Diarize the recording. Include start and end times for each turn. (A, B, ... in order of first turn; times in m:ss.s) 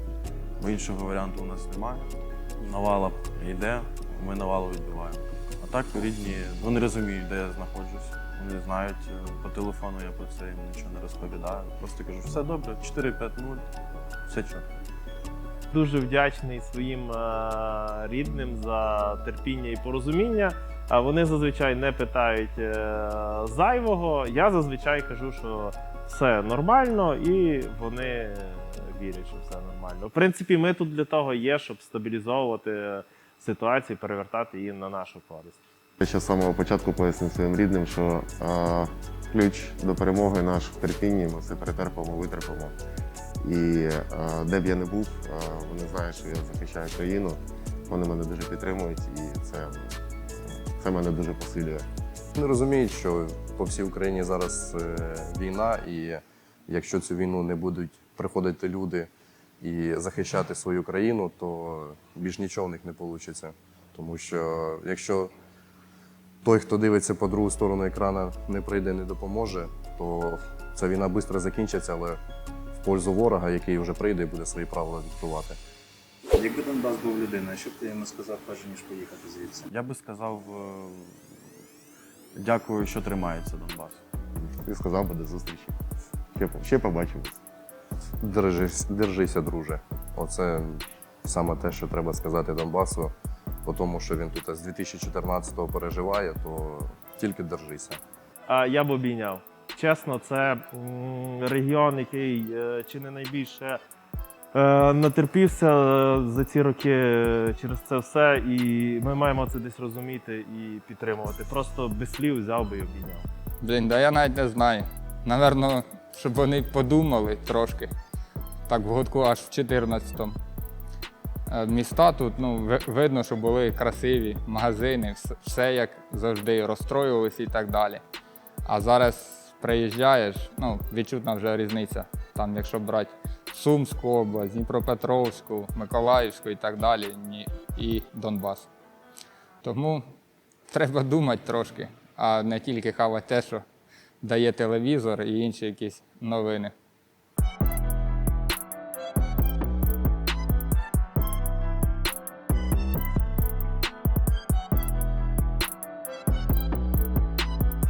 0:00.6-0:13.7 A
0:14.3-0:14.7 A
0:15.7-0:35.6 B
0:36.0-0:42.8 C
0:43.4-0:51.8 C
0:52.4-0:59.1 D
0:59.6-1:05.3 D
1:06.4-1:12.2 D
1:12.8-1:15.6 D
1:16.3-1:19.7 E
1:19.7-1:21.2 A
1:22.4-1:24.0 A
1:24.6-1:25.8 C
1:26.3-1:27.4 C
1:28.2-1:33.1 D
1:33.6-1:38.0 D
1:38.5-1:43.8 B
1:44.5-1:53.3 B
1:53.6-1:57.9 F
1:58.7-2:00.4 F
2:01.5-2:08.0 F
2:08.7-2:18.7 F
2:19.6-2:20.0 F
2:20.7-2:23.6 F
2:24.2-2:26.7 F